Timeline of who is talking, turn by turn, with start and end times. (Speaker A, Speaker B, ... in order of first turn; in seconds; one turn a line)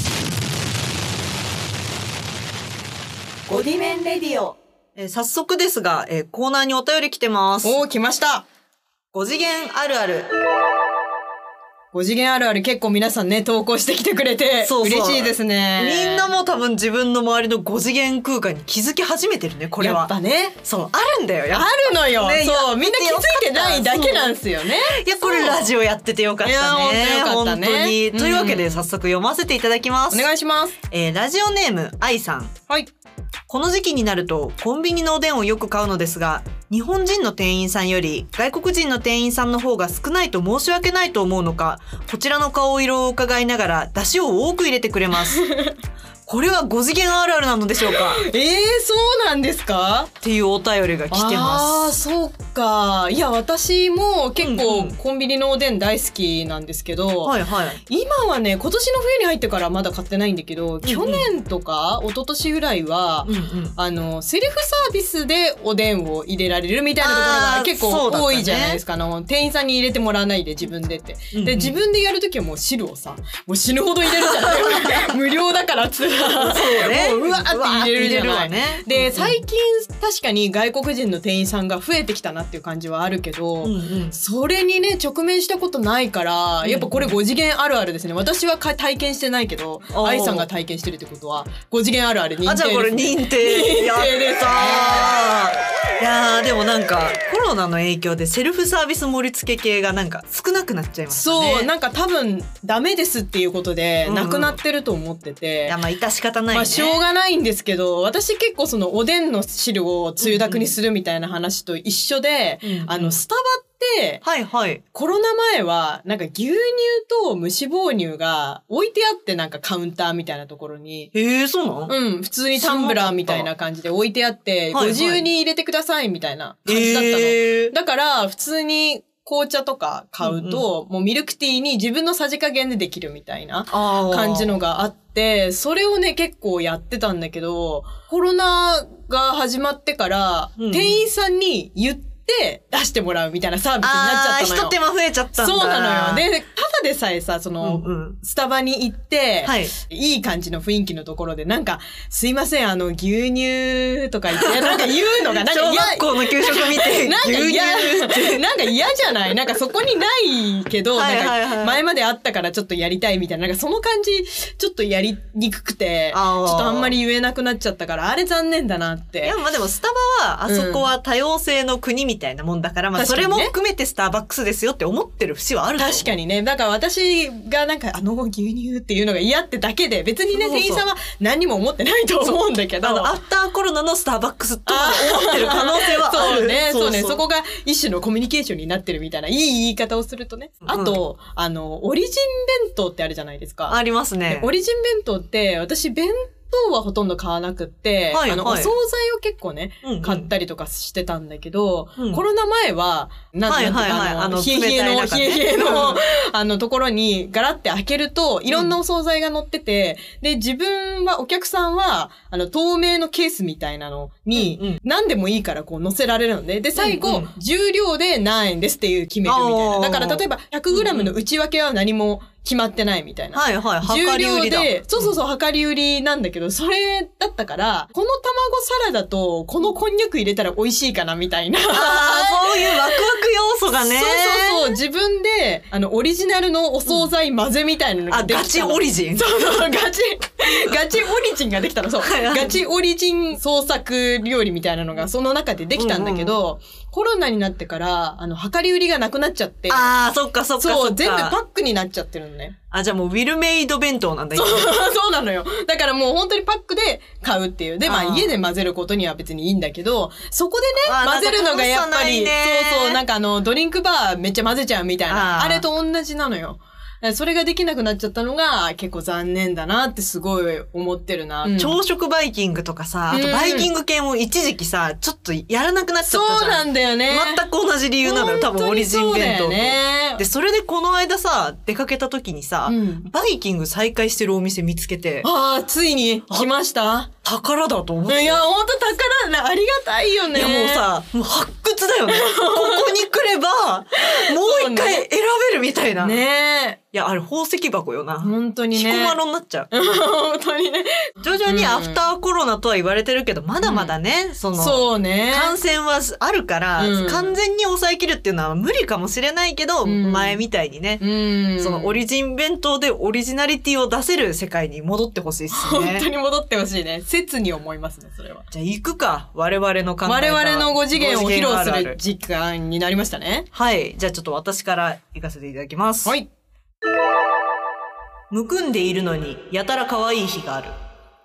Speaker A: 3.5-4.6
Speaker B: 5.0-7.8
Speaker A: 7.6-8.5
Speaker B: 9.1-10.3
Speaker A: 11.9-16.3
Speaker B: 14.6-24.3
Speaker A: 19.8-20.6
Speaker A: 21.5-25.7
Speaker B: 24.9-30.3
Speaker A: 26.4-28.9
Speaker A: 30.1-30.8
Speaker B: 30.9-32.5
Speaker B: 33.5-45.4
Speaker A: 45.2-45.7
Speaker B: 46.2-48.2
Speaker A: 47.9-50.1
Speaker B: 50.2-52.0
Speaker A: 51.1-57.3
Speaker B: 54.4-54.9
Speaker B: 57.2-57.8
Speaker A: 57.9-95.2
Speaker B: 60.8-61.3
Speaker B: 63.2-63.7
Speaker B: 67.0-68.8
Speaker B: 71.3-71.7
Speaker B: 74.1-74.9
Speaker B: 76.3-79.4
Speaker B: 83.6-84.2
Speaker B: 86.6-87.2
Speaker B: 89.9-90.5
Speaker B: 92.4-101.7
Speaker A: 101.1-105.8
Speaker B: 104.0-104.6
Speaker B: 105.7-107.0
Speaker A: 106.5-114.2
Speaker B: 110.2-110.7
Speaker B: 112.6-113.2
Speaker B: 114.2-114.8
Speaker A: 114.9-121.1
Speaker B: 121.1-121.9
Speaker A: 121.9-144.8
Speaker B: 122.5-123.5
Speaker B: 124.7-125.2
Speaker B: 126.7-127.7
Speaker B: 130.2-130.6
Speaker B: 133.7-134.6
Speaker B: 140.6-141.0
Speaker B: 143.8-146.2
Speaker A: 145.4-169.4
Speaker B: 147.6-148.2
Speaker B: 149.4-149.7
Speaker B: 154.4-158.4
Speaker B: 160.9-161.8
Speaker B: 166.1-166.9
Speaker B: 169.2-176.1
Speaker A: 170.5-170.9
Speaker A: 172.9-173.5
Speaker A: 175.8-183.2
Speaker B: 180.3-180.8
Speaker B: 182.2-187.2
Speaker A: 184.7-233.0
Speaker B: 190.6-191.0
Speaker B: 193.7-194.5
Speaker B: 198.1-198.7
Speaker B: 199.8-200.3
Speaker B: 203.5-206.0
Speaker B: 214.3-214.8
Speaker B: 216.8-217.3
Speaker B: 219.2-221.1
Speaker B: 223.3-225.2
Speaker B: 231.7-234.7
Speaker A: 233.8-249.9
Speaker B: 238.1-239.6
Speaker B: 242.0-242.6
Speaker B: 245.7-246.4
Speaker B: 249.7-251.4
Speaker A: 250.6-252.6
Speaker B: 252.7-254.7
Speaker A: 254.3-271.8
Speaker B: 257.8-258.3
Speaker B: 260.8-263.0
Speaker B: 265.1-265.6
Speaker B: 271.4-285.3
Speaker A: 273.1-273.7
Speaker A: 276.0-277.4
Speaker A: 278.0-280.2
Speaker A: 282.6-283.1
Speaker A: 285.2-287.1
Speaker B: 287.2-288.4
Speaker A: 288.1-290.9
Speaker B: 290.3-296.2
Speaker A: 292.1-293.0
Speaker A: 294.0-295.1
Speaker A: 296.0-296.8
Speaker B: 296.9-299.7
Speaker A: 298.2-299.2
Speaker A: 299.7-302.1
Speaker B: 301.2-311.0
Speaker A: 303.6-303.9
Speaker A: 304.5-305.6
Speaker A: 306.8-307.4
Speaker A: 309.8-310.4
Speaker A: 311.0-312.0
Speaker B: 311.6-316.1
Speaker A: 315.5-318.5
Speaker B: 318.5-322.0
Speaker A: 320.0-323.5
Speaker B: 323.5-326.1
Speaker B: 328.3-330.7